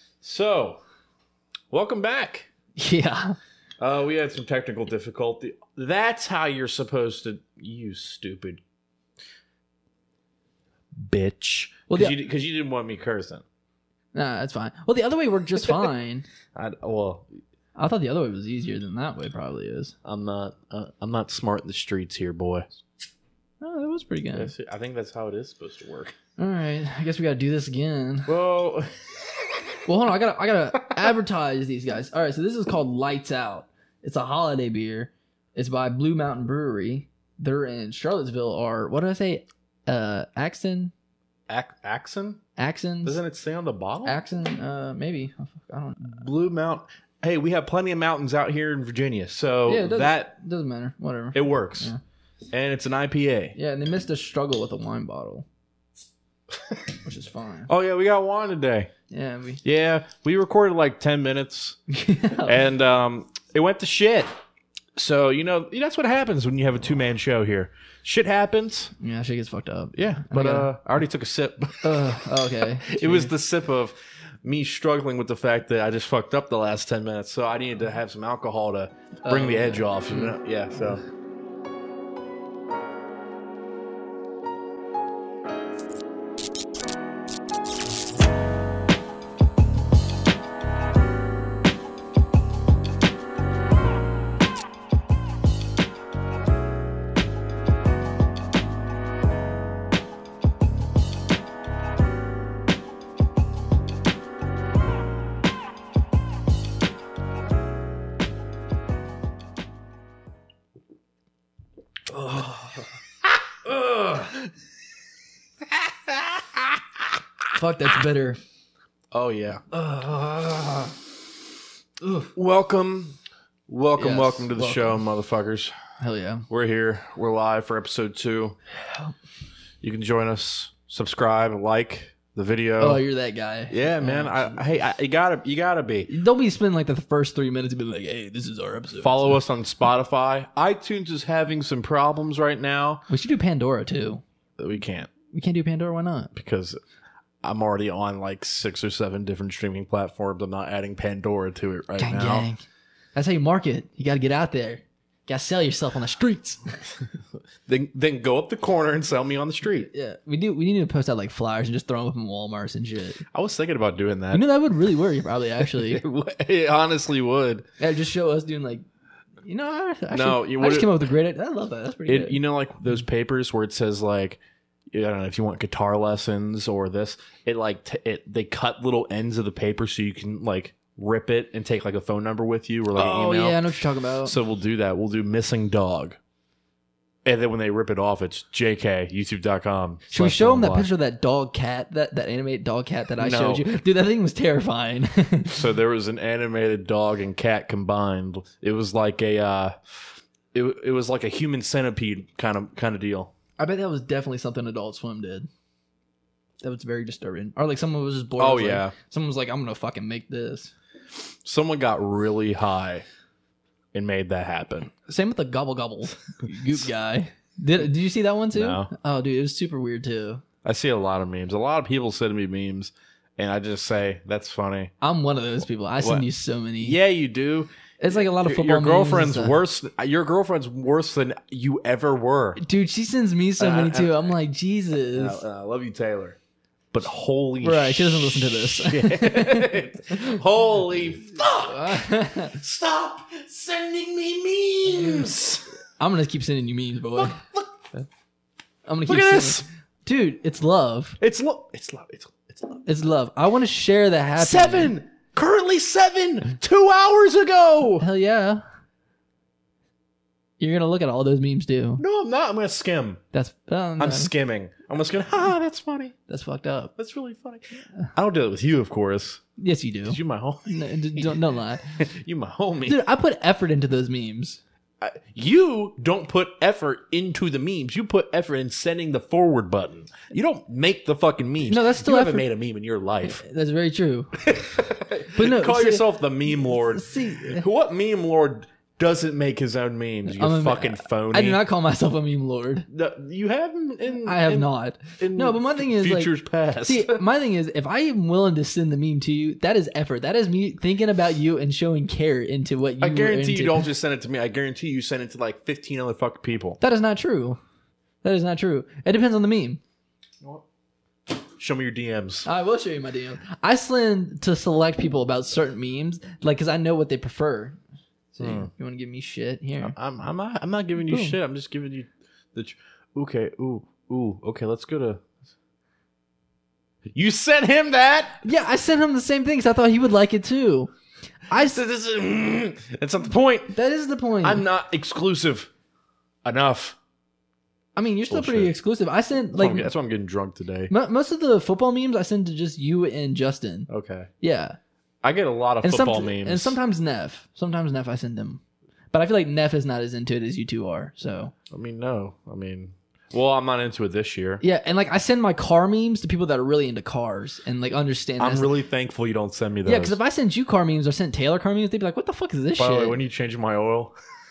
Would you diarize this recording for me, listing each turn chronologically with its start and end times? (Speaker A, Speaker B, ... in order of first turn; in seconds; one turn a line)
Speaker A: 0.2-0.8
Speaker A: 1.7-2.5
Speaker B: 2.8-3.4
Speaker A: 3.8-8.6
Speaker A: 11.0-13.4
Speaker B: 11.9-12.2
Speaker B: 14.1-16.3
Speaker A: 16.6-17.3
Speaker B: 17.8-19.9
Speaker A: 20.0-22.7
Speaker B: 23.6-24.5
Speaker A: 24.3-26.1
Speaker B: 26.4-28.3
Speaker A: 28.3-28.9
Speaker B: 29.9-40.9
Speaker A: 41.5-42.4
Speaker B: 42.6-43.2
Speaker A: 43.0-44.2
Speaker B: 44.0-46.2
Speaker A: 46.0-50.3
Speaker B: 49.7-52.0
Speaker A: 51.3-51.9
Speaker A: 52.5-53.5
Speaker B: 53.5-55.5
Speaker B: 57.0-57.7
Speaker A: 57.7-58.9
Speaker B: 59.1-59.6
Speaker A: 59.6-61.8
Speaker B: 61.9-62.6
Speaker A: 62.4-64.3
Speaker A: 65.0-68.9
Speaker B: 69.0-70.7
Speaker A: 70.0-72.3
Speaker B: 71.8-73.3
Speaker A: 72.8-81.0
Speaker B: 79.3-80.3
Speaker B: 112.1-113.0
Speaker B: 113.7-114.3
Speaker A: 116.1-116.8
Speaker B: 117.5-118.4
Speaker A: 119.1-119.6
Speaker B: 119.7-121.0
Speaker B: 122.0-122.3
Speaker A: 122.3-123.2
Speaker A: 123.7-125.7
Speaker B: 124.0-125.0
Speaker B: 126.0-126.5
Speaker A: 126.5-128.6
Speaker A: 129.8-133.0
Speaker B: 132.8-134.6
Speaker A: 133.7-136.1
Speaker B: 136.1-139.4
Speaker A: 139.0-143.1
Speaker B: 143.1-144.2
Speaker A: 144.6-145.1
Speaker B: 145.3-146.3
Speaker A: 146.3-146.8
Speaker A: 147.4-152.5
Speaker B: 152.0-156.6
Speaker A: 157.7-159.9
Speaker B: 159.8-163.2
Speaker A: 163.3-164.4
Speaker B: 164.3-166.0
Speaker A: 165.7-167.7
Speaker B: 167.8-168.8
Speaker B: 169.4-172.4
Speaker A: 170.1-170.9
Speaker A: 172.1-174.4
Speaker A: 174.9-186.2
Speaker B: 182.9-184.4
Speaker A: 187.2-190.9
Speaker B: 190.1-195.7
Speaker A: 193.2-193.7
Speaker A: 195.6-203.3
Speaker B: 203.6-205.5
Speaker B: 206.6-210.7
Speaker A: 208.4-208.9
Speaker A: 211.4-213.1
Speaker A: 213.9-214.9
Speaker B: 215.0-220.4
Speaker A: 216.4-216.8
Speaker A: 218.5-218.9
Speaker A: 220.6-224.9
Speaker B: 225.0-227.0
Speaker A: 226.0-226.3
Speaker A: 226.8-232.6
Speaker B: 228.0-229.6
Speaker B: 232.6-235.4
Speaker A: 233.6-234.2
Speaker A: 235.1-236.4
Speaker A: 236.9-245.7
Speaker B: 237.6-239.8
Speaker B: 241.6-242.6
Speaker B: 245.0-245.2
Speaker B: 246.0-247.4
Speaker A: 247.2-248.0
Speaker B: 248.8-251.2
Speaker A: 249.1-249.7
Speaker A: 251.2-252.8
Speaker B: 252.9-254.9
Speaker A: 254.4-258.1
Speaker B: 258.0-258.6
Speaker B: 260.6-262.0
Speaker A: 262.0-263.2
Speaker B: 263.3-264.3
Speaker A: 264.0-266.1
Speaker B: 266.3-266.9
Speaker A: 267.0-269.4
Speaker B: 269.6-271.9
Speaker A: 270.1-271.4
Speaker A: 272.0-273.0
Speaker B: 272.9-274.6
Speaker A: 275.0-283.4
Speaker B: 281.6-282.5
Speaker B: 283.2-284.4
Speaker A: 284.4-291.6
Speaker B: 285.4-287.6
Speaker B: 290.3-292.9
Speaker A: 292.9-297.2
Speaker B: 294.2-303.9
Speaker A: 303.0-306.8
Speaker B: 306.8-307.6
Speaker B: 308.2-309.8
Speaker A: 311.6-312.5
Speaker B: 312.4-317.8
Speaker B: 318.3-319.9
Speaker A: 318.4-318.7
Speaker A: 319.8-325.2
Speaker B: 321.1-321.4
Speaker A: 327.1-328.4
Speaker B: 328.4-330.9
Speaker B: 331.5-331.8
Speaker A: 331.6-333.8
Speaker B: 333.7-334.6
Speaker A: 334.4-335.7
Speaker A: 336.4-337.0
Speaker B: 338.0-339.9
Speaker A: 338.3-338.7
Speaker A: 339.6-340.9
Speaker B: 340.9-343.9
Speaker A: 343.9-344.3
Speaker B: 344.4-344.8
Speaker A: 345.2-346.8
Speaker B: 345.8-348.6
Speaker B: 349.1-351.5
Speaker A: 351.7-354.6
Speaker B: 354.6-358.7
Speaker A: 358.4-360.2
Speaker B: 359.9-363.2
Speaker A: 362.8-364.1